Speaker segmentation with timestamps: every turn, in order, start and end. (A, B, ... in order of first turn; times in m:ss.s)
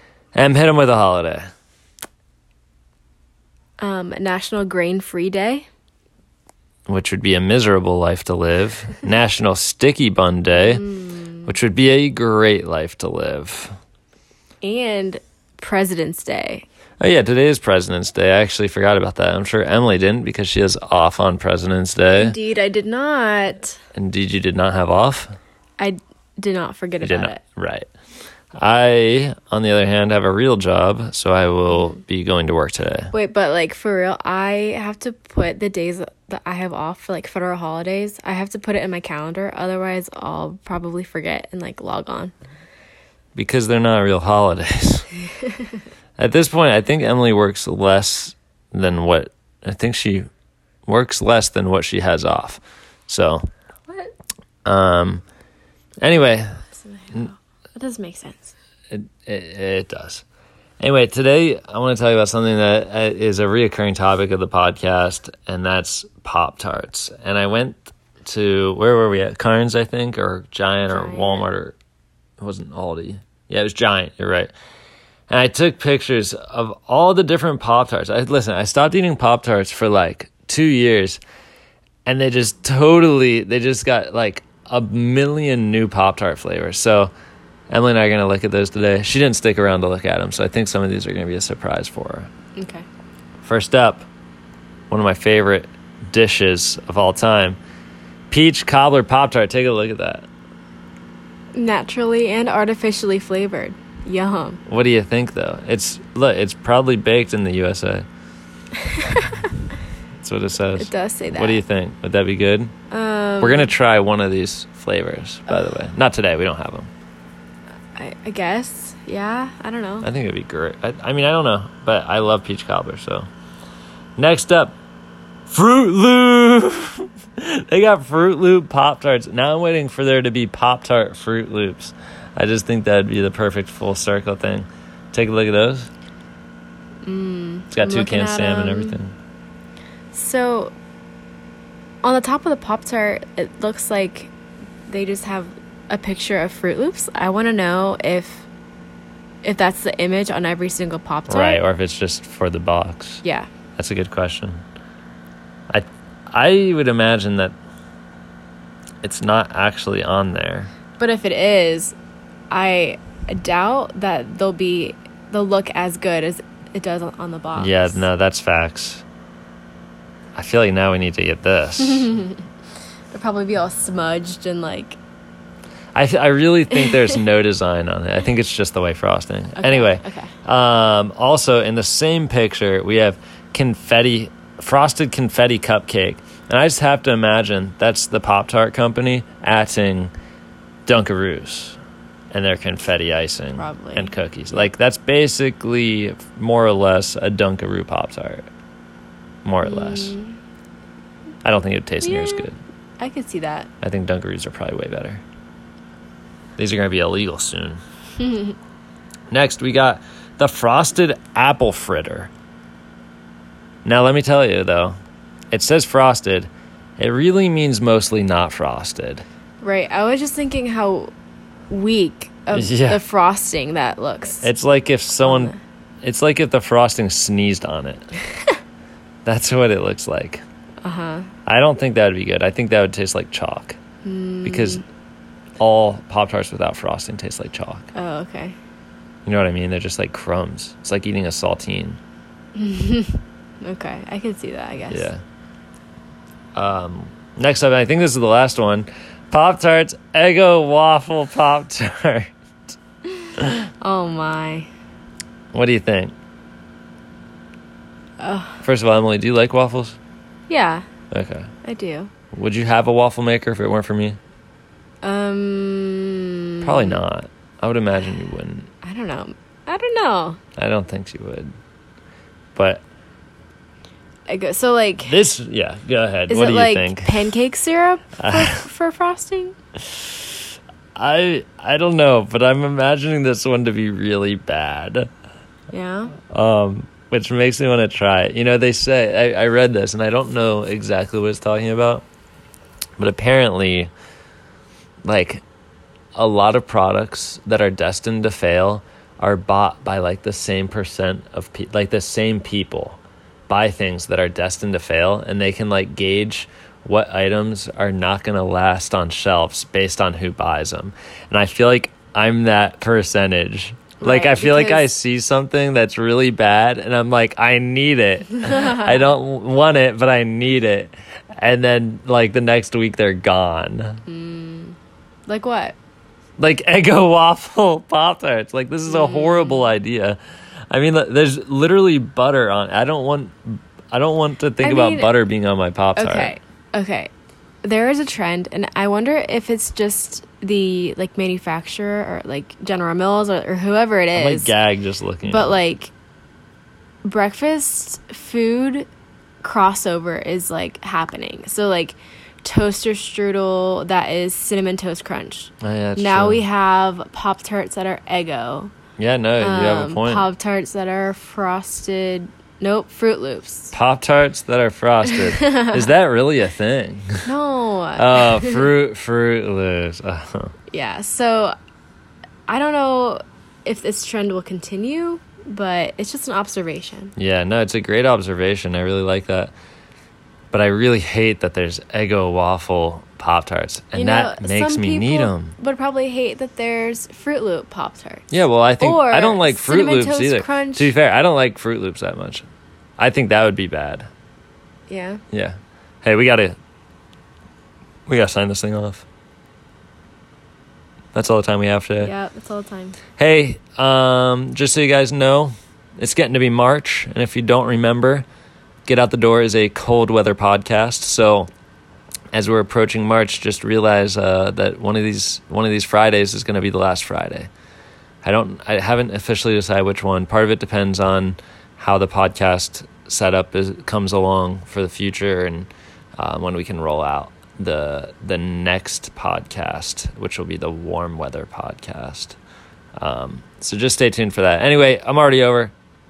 0:00.3-0:01.5 A
0:03.8-0:05.7 B
0:06.9-0:10.9 A
0:10.6-0:11.5 B
0:11.4-0:13.7 A
0:14.6-0:16.6 B
0:17.0-0:22.4 A
0:22.1-0:23.8 B
0:23.9-0:25.4 A
0:25.8-0:27.4 B
0:27.0-0:27.9 A
0:28.6-0:33.1 A
0:33.1-0:42.3 B
0:43.4-0:45.1 A
0:46.2-0:50.3 A
0:50.8-0:53.4 A
0:54.6-0:55.2 A
0:56.0-0:56.6 A
0:56.9-0:58.5 B
0:58.9-1:00.2 A
1:00.8-1:11.8 A
1:10.9-1:11.5 B
1:12.4-1:14.5 A
1:15.3-1:21.2 A
1:22.0-1:27.1 A
1:27.7-1:32.3 A
1:32.6-1:32.8 B
1:33.4-1:34.1 A
1:34.9-1:37.6 A
1:38.3-1:40.3 A
1:41.5-1:44.6 B
1:44.7-1:48.1 A
1:48.8-1:49.5 B
1:50.2-1:52.7 A
1:50.8-1:51.6 B
1:52.9-1:53.7 B
1:53.4-1:56.9 A
1:58.0-2:00.1 B
2:00.0-2:03.3 A
2:04.2-2:04.8 A
2:05.5-2:15.9 A
2:17.0-2:19.0 B
2:17.7-2:19.1 A
2:20.1-2:20.7 B
2:22.0-2:24.3 B
2:24.9-2:28.4 B
2:29.4-2:31.6 B
2:31.3-2:33.2 A
2:33.2-2:33.5 B
2:33.8-2:34.6 A
2:35.7-2:37.5 A
2:39.0-2:40.7 A
2:41.0-2:42.0 B
2:42.5-2:48.0 B
2:47.6-2:49.0 A
2:50.3-2:52.1 A
2:51.8-2:52.4 B
2:53.1-2:55.0 B
2:55.9-3:10.1 A
2:59.6-3:00.3 B
3:10.9-3:11.8 A
3:12.3-3:18.5 A
3:13.6-3:14.1 B
3:19.4-3:20.1 A
3:19.6-3:20.4 B
3:21.4-3:22.6 A
3:22.0-3:22.5 B
3:23.0-3:23.7 B
3:23.8-3:25.2 A
3:26.6-3:27.8 A
3:28.2-3:28.6 B
3:29.3-3:32.3 A
3:33.8-3:35.0 A
3:35.5-3:39.2 A
3:39.6-3:41.1 B
3:41.7-3:44.5 B
3:42.5-3:43.0 A
3:44.4-3:48.1 A
3:45.2-3:45.6 B
3:49.2-3:50.4 A
3:50.8-3:51.3 B
3:51.4-3:53.8 A
3:54.0-3:54.8 B
3:54.4-3:54.8 A
3:55.6-3:57.9 A
3:57.9-3:58.6 B
3:59.2-4:02.0 A
4:02.5-4:05.1 B
4:04.9-4:05.2 A
4:06.6-4:12.3 A
4:13.4-4:14.7 B
4:15.5-4:16.1 A
4:18.2-4:18.6 B
4:18.6-4:20.0 A
4:20.5-4:20.8 B
4:21.1-4:21.5 A
4:21.6-4:22.1 B
4:22.3-4:24.2 A
4:25.0-4:27.0 B
4:26.6-4:28.7 A
4:28.8-4:30.4 B
4:30.6-4:31.5 A
4:32.6-4:32.8 A
4:34.3-4:35.2 B
4:35.0-4:37.3 A
4:36.3-4:39.5 B
4:38.2-4:38.6 A
4:41.0-4:45.1 A
4:45.7-4:46.1 B
4:46.3-4:52.0 A
4:53.0-4:53.9 A
4:55.0-4:55.4 A
4:56.2-5:24.0 A
5:14.0-5:14.9 B
5:24.1-5:25.8 B
5:26.4-5:30.2 A
5:28.9-5:29.7 B
5:30.7-5:36.3 A
5:34.6-5:35.1 B
5:36.0-5:37.1 B
5:37.6-5:44.5 B
5:44.1-5:45.6 A
5:45.2-5:45.9 B
5:47.0-5:48.9 B
5:49.4-5:58.7 B
5:55.6-5:56.4 A
5:59.0-6:00.3 A
5:59.4-6:03.7 B
6:03.7-6:07.2 A
6:05.0-6:05.9 B
6:07.2-6:08.7 B
6:08.0-6:10.5 A
6:10.7-6:11.5 B
6:12.5-6:17.1 B
6:17.2-6:19.5 A
6:20.5-6:25.6 A
6:23.9-6:30.9 B
6:28.3-6:32.4 A
6:33.0-6:34.1 A
6:34.9-6:35.2 B
6:35.3-6:36.6 A
6:38.1-6:39.0 A
6:41.1-6:42.1 A
6:42.0-6:43.0 B
6:43.2-6:48.2 A
6:48.9-6:51.5 A
6:52.3-6:57.5 A
6:58.2-7:12.4 A
7:13.0-7:15.7 A